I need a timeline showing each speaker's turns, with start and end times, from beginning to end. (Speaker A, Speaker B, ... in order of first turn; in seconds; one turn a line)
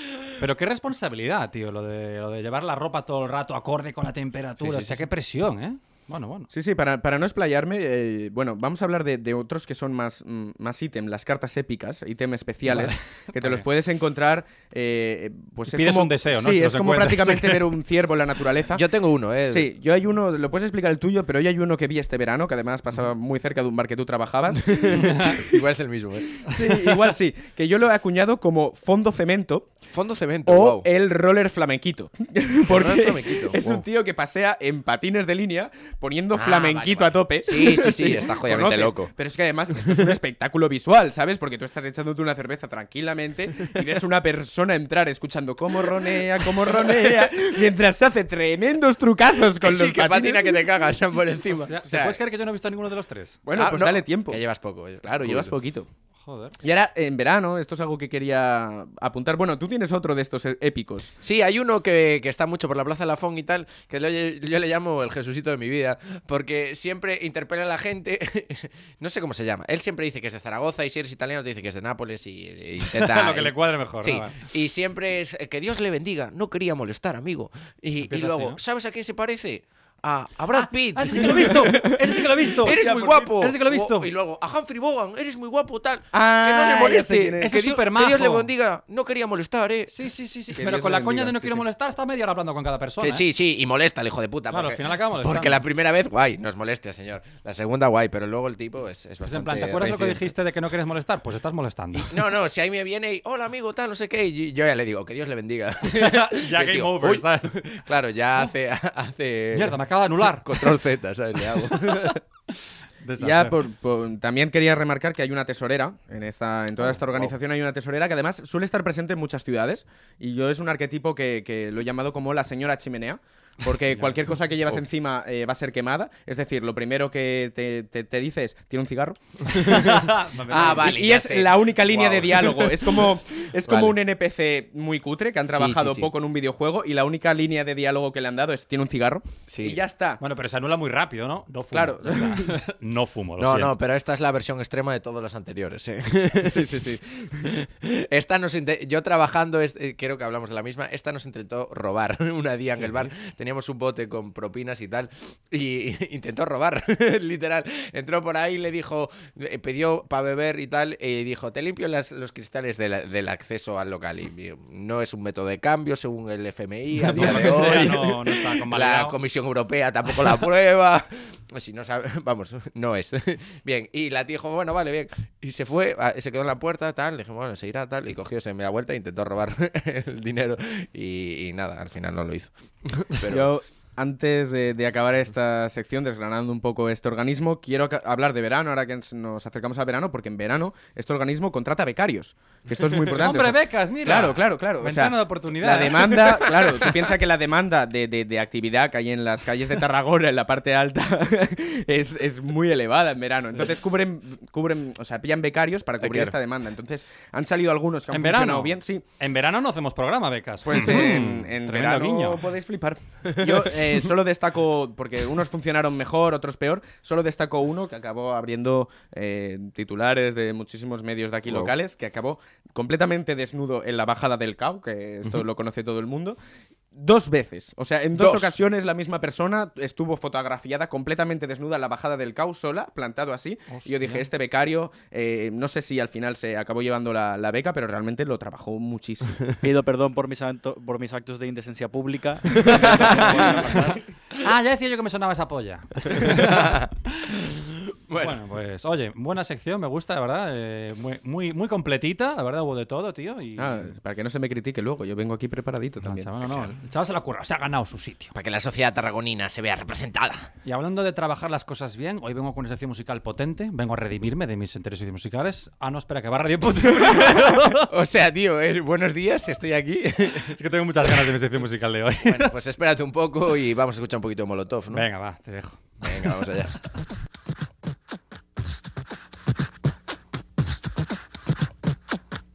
Speaker A: 0.4-6.5
Speaker B: 4.6-5.0
Speaker C: 6.5-18.8
Speaker A: 12.7-13.6
Speaker A: 15.7-17.7
Speaker B: 18.7-19.7
Speaker C: 19.4-25.6
Speaker B: 24.6-26.4
Speaker C: 26.4-29.7
Speaker B: 29.9-30.9
Speaker C: 30.4-52.2
Speaker B: 32.6-33.9
Speaker B: 36.3-39.1
Speaker B: 39.8-40.2
Speaker B: 46.0-47.3
Speaker B: 49.6-51.8
Speaker A: 51.7-53.4
Speaker C: 53.4-54.4
Speaker B: 53.5-55.6
Speaker C: 55.0-55.9
Speaker A: 56.2-56.6
Speaker C: 56.6-61.1
Speaker B: 61.2-89.9
Speaker A: 72.8-74.5
Speaker A: 78.0-78.6
Speaker A: 80.5-84.1
Speaker C: 81.5-81.9
Speaker C: 82.6-83.3
Speaker C: 86.1-87.6
Speaker A: 87.4-88.5
Speaker A: 89.9-93.2
Speaker C: 90.6-91.6
Speaker B: 93.0-100.3
Speaker A: 94.5-95.6
Speaker A: 99.2-102.2
Speaker B: 101.9-112.2
Speaker A: 105.9-107.6
Speaker A: 109.5-110.7
Speaker A: 113.0-113.6
Speaker C: 113.2-140.2
Speaker B: 116.8-117.3
Speaker A: 123.7-124.1
Speaker A: 129.5-130.9
Speaker B: 129.7-133.1
Speaker B: 133.6-134.0
Speaker B: 135.5-136.1
Speaker B: 139.5-139.8
Speaker A: 140.2-143.7
Speaker C: 141.7-142.6
Speaker B: 143.4-183.5
Speaker C: 146.4-147.4
Speaker A: 152.8-153.1
Speaker A: 167.0-169.2
Speaker C: 183.2-209.0
Speaker A: 193.1-196.5
Speaker B: 206.0-206.4
Speaker A: 208.1-212.5
Speaker C: 210.6-226.4
Speaker B: 213.4-213.7
Speaker B: 221.5-221.7
Speaker C: 226.9-239.6
Speaker B: 228.2-228.6
Speaker A: 233.7-234.3
Speaker D: 239.6-244.0
Speaker B: 242.8-243.2
Speaker A: 244.4-247.3
Speaker B: 246.2-248.4
Speaker A: 248.2-253.9
Speaker C: 253.6-256.3
Speaker A: 256.0-258.3
Speaker B: 258.3-260.5
Speaker A: 260.6-267.9
Speaker B: 267.0-270.6
Speaker A: 270.4-272.5
Speaker B: 272.2-275.1
Speaker A: 274.9-276.3
Speaker B: 276.0-276.8